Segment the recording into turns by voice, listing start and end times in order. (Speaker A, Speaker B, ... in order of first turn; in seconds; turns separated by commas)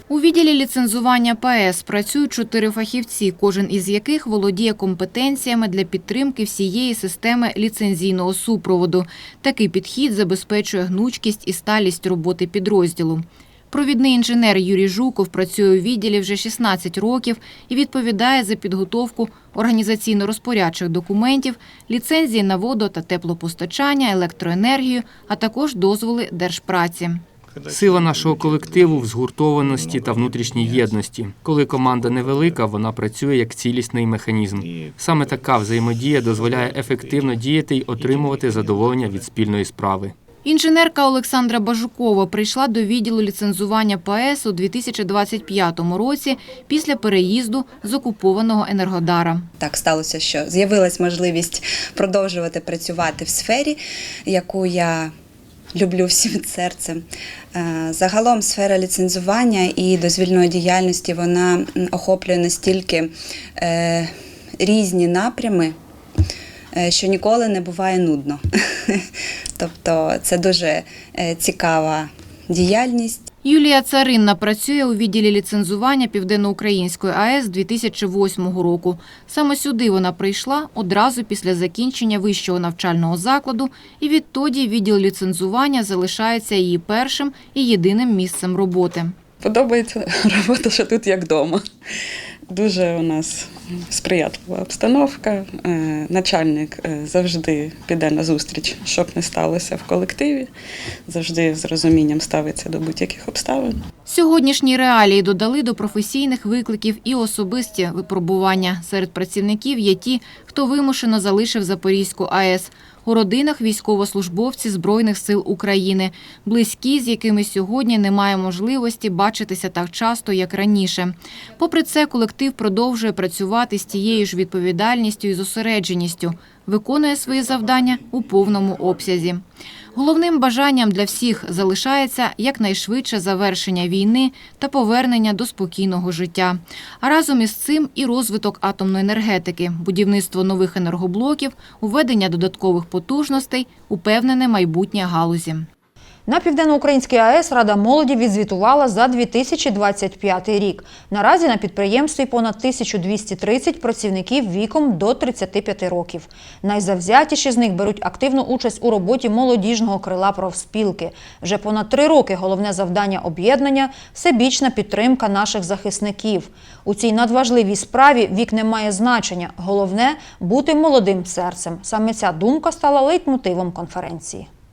Speaker A: 0.1-27.2, Speaker B: 27.7-40.1, Speaker A: 40.5-49.5, Speaker C: 49.6-55.1, Speaker C: 55.8-65.8, Speaker C: 66.8-69.0, Speaker C: 69.6-73.2, Speaker A: 73.4-89.1, Speaker D: 89.4-91.6, Speaker D: 92.5-100.5, Speaker D: 101.1-103.8, Speaker A: 104.1-129.4, Speaker A: 129.9-145.7, Speaker E: 146.3-174.5